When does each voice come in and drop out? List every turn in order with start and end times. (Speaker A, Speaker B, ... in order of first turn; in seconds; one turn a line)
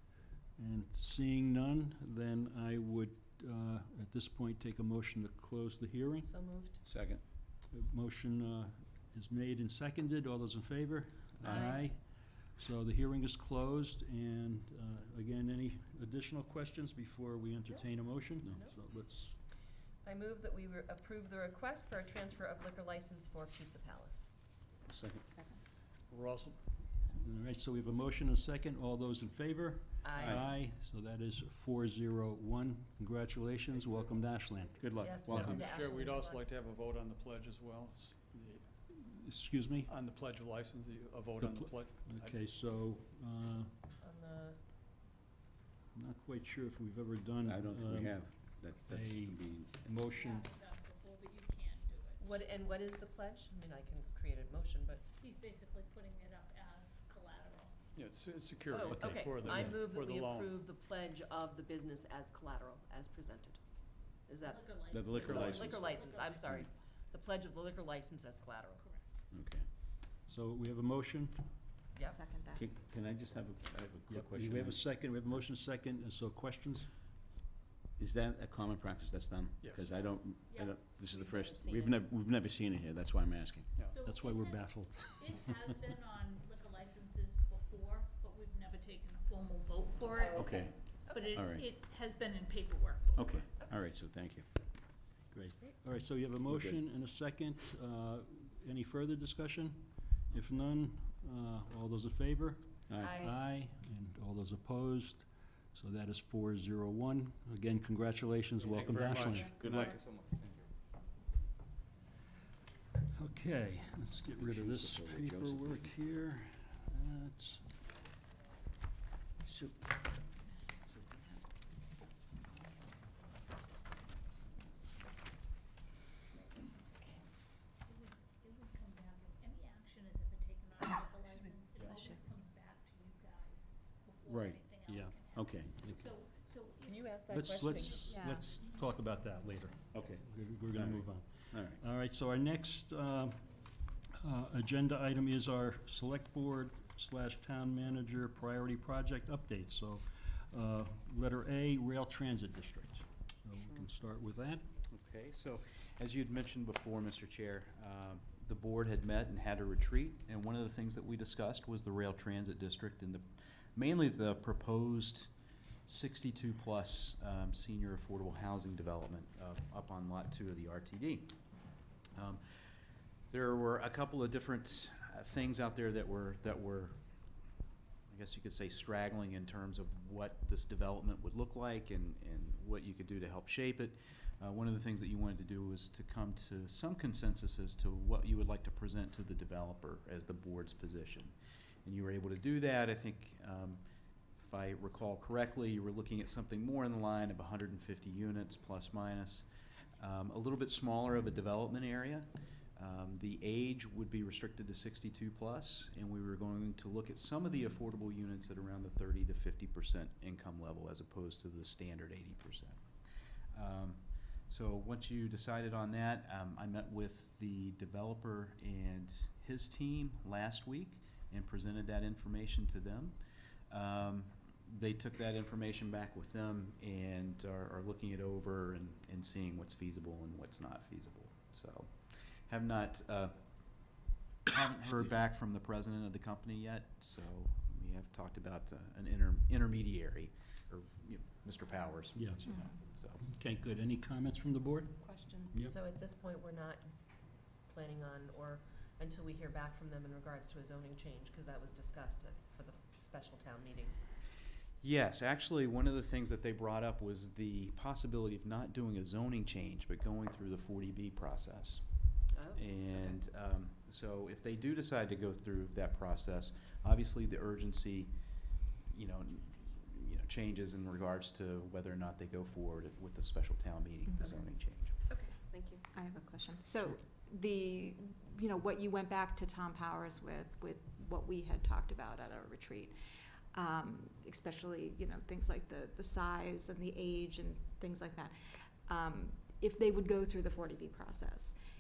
Speaker A: 0.6-6.3
Speaker B: 6.3-6.8
Speaker C: 6.8-7.2
Speaker A: 7.7-19.4
Speaker C: 11.4-11.8
Speaker D: 11.5-11.7
Speaker C: 18.4-18.7
Speaker B: 20.0-24.3
Speaker C: 24.9-25.3
Speaker D: 25.3-25.6
Speaker E: 26.1-26.6
Speaker A: 27.1-35.6
Speaker B: 30.0-30.4
Speaker C: 30.2-30.5
Speaker E: 33.7-34.1
Speaker C: 34.8-35.7
Speaker E: 34.8-38.7
Speaker B: 35.0-36.4
Speaker A: 38.9-39.9
Speaker E: 39.9-42.4
Speaker A: 41.4-43.7
Speaker B: 44.0-44.6
Speaker A: 46.0-48.3
Speaker C: 47.5-49.9
Speaker A: 48.9-50.5
Speaker F: 50.1-52.4
Speaker B: 52.2-55.0
Speaker F: 55.2-57.8
Speaker E: 58.0-60.9
Speaker B: 58.7-63.6
Speaker A: 58.9-59.8
Speaker B: 64.3-64.8
Speaker F: 64.4-66.6
Speaker C: 64.9-66.7
Speaker E: 65.2-65.9
Speaker B: 65.6-68.8
Speaker F: 68.8-69.1
Speaker C: 69.3-69.7
Speaker A: 70.3-71.5
Speaker B: 72.0-72.2
Speaker D: 72.1-72.7
Speaker C: 72.5-74.9
Speaker A: 74.1-76.9
Speaker C: 78.0-83.7
Speaker E: 79.6-80.0
Speaker F: 80.0-82.0
Speaker E: 83.7-84.0
Speaker F: 83.8-93.4
Speaker A: 84.0-85.3
Speaker C: 90.3-90.8
Speaker C: 91.3-91.7
Speaker C: 93.2-94.5
Speaker A: 95.3-109.6
Speaker C: 96.5-96.8
Speaker C: 102.9-103.3
Speaker B: 103.0-103.3
Speaker E: 108.6-110.5
Speaker C: 109.6-109.9
Speaker A: 113.2-117.7
Speaker C: 114.4-115.9
Speaker A: 119.5-120.0
Speaker F: 127.8-137.3
Speaker C: 134.3-134.6
Speaker A: 134.9-135.2
Speaker C: 135.3-135.8
Speaker B: 136.9-137.8
Speaker A: 137.3-143.5
Speaker D: 137.9-138.5
Speaker C: 139.9-141.8
Speaker A: 144.1-154.7
Speaker G: 154.9-165.3
Speaker G: 165.8-171.4
Speaker G: 172.1-172.4
Speaker G: 173.3-177.0
Speaker G: 178.1-193.8
Speaker G: 194.4-199.5
Speaker G: 200.0-212.8
Speaker G: 213.5-223.2
Speaker G: 223.7-233.4
Speaker G: 234.5-243.2
Speaker A: 242.2-242.5
Speaker D: 242.4-242.8
Speaker A: 243.2-245.8
Speaker B: 245.0-246.9
Speaker B: 247.7-254.0
Speaker G: 254.8-261.9
Speaker B: 262.3-263.2
Speaker G: 262.6-268.1
Speaker G: 268.9-275.0
Speaker D: 274.1-274.9
Speaker B: 275.1-275.8
Speaker D: 275.9-283.0
Speaker D: 283.5-291.6